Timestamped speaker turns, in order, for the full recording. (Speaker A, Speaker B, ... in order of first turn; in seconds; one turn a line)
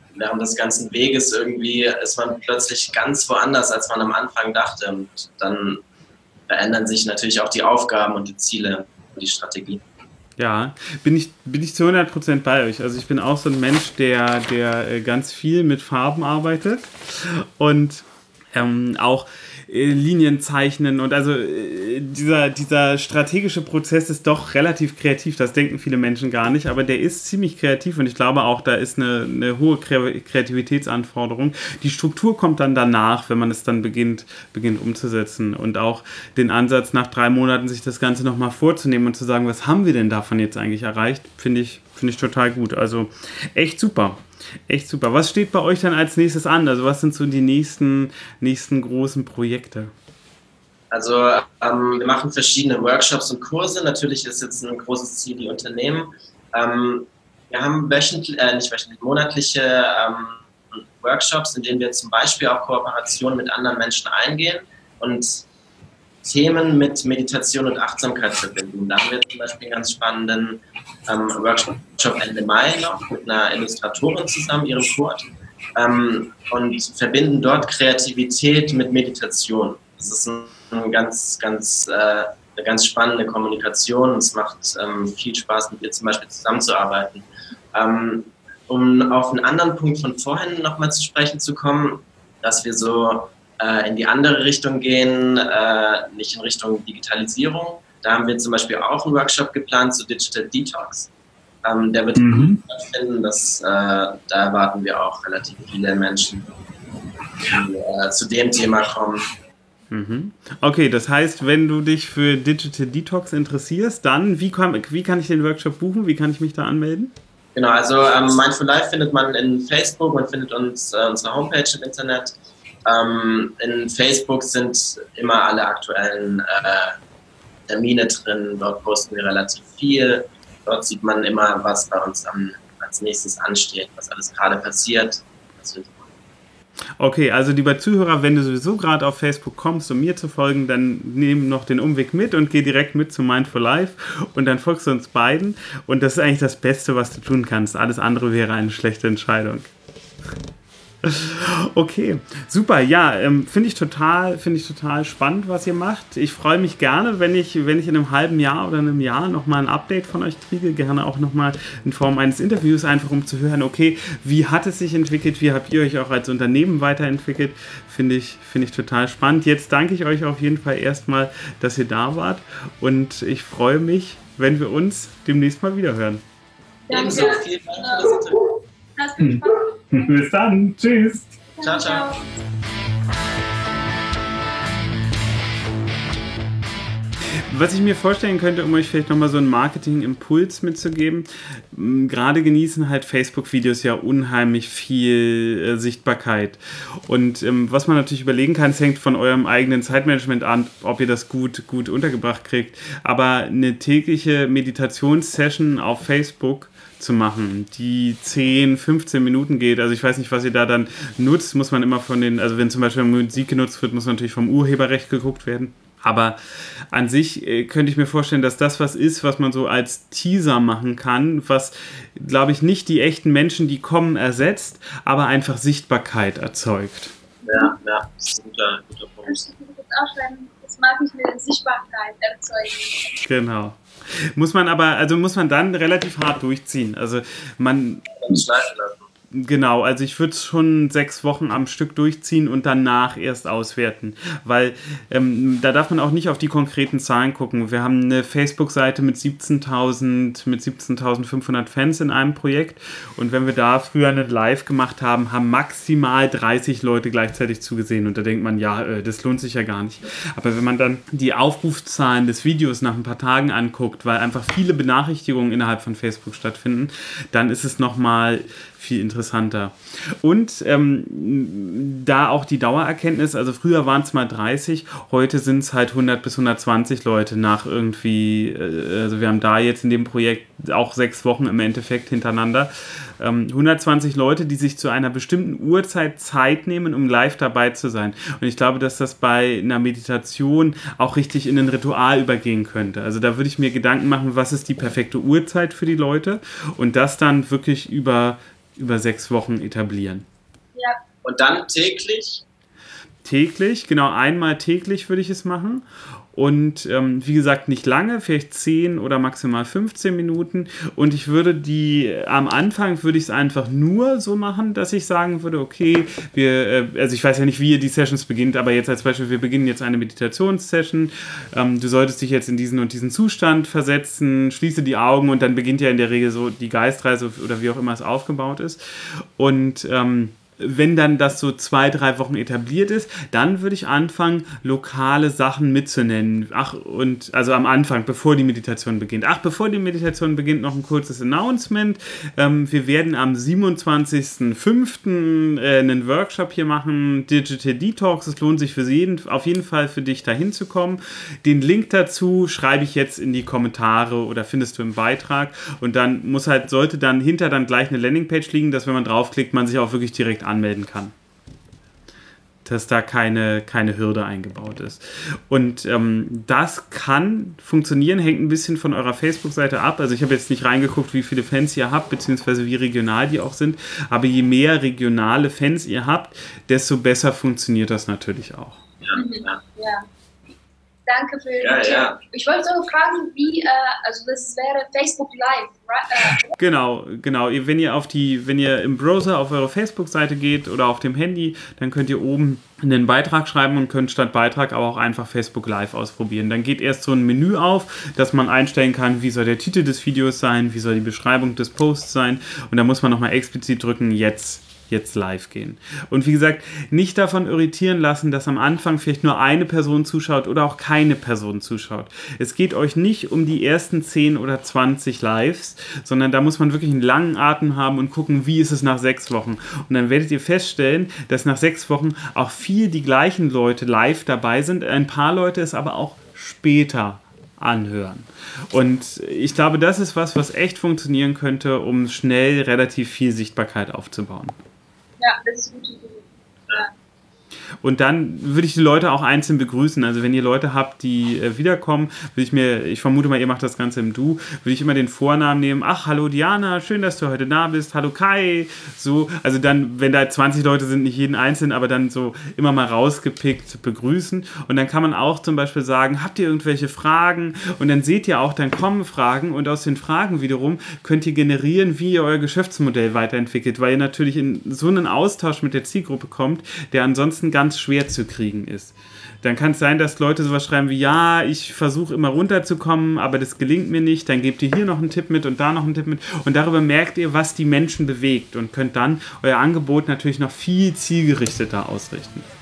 Speaker A: 0.1-5.8
Speaker A: 6.5-9.8
Speaker B: 10.4-49.9
Speaker A: 50.9-65.4
Speaker A: 66.2-101.1
Speaker A: 101.6-106.5
Speaker B: 102.2-102.6
Speaker A: 107.5-109.3
Speaker B: 109.9-117.1
Speaker A: 117.5-122.3
Speaker A: 122.8-127.0
Speaker A: 127.7-136.1
Speaker B: 137.0-149.7
Speaker B: 151.0-176.2
Speaker C: 176.9-178.2
Speaker A: 176.9-178.4
Speaker C: 179.0-180.1
Speaker B: 179.2-181.4
Speaker C: 181.5-182.3
Speaker A: 181.6-182.1
Speaker B: 187.5-227.1
Speaker C: 227.4-227.8
Speaker A: 227.4-229.5
Speaker C: 229.2-233.1
Speaker B: 233.2-233.8
Speaker B: 234.3-238.1
Speaker A: 238.1-239.1
Speaker B: 239.3-300.2
Speaker A: 301.2-302.4
Speaker B: 303.2-328.8
Speaker B: 329.4-361.1
Speaker B: 362.6-378.8
Speaker A: 379.0-379.6
Speaker C: 379.1-380.1
Speaker C: 381.1-386.5
Speaker A: 381.6-382.2
Speaker B: 386.6-434.6
Speaker C: 435.2-436.9
Speaker B: 437.8-482.5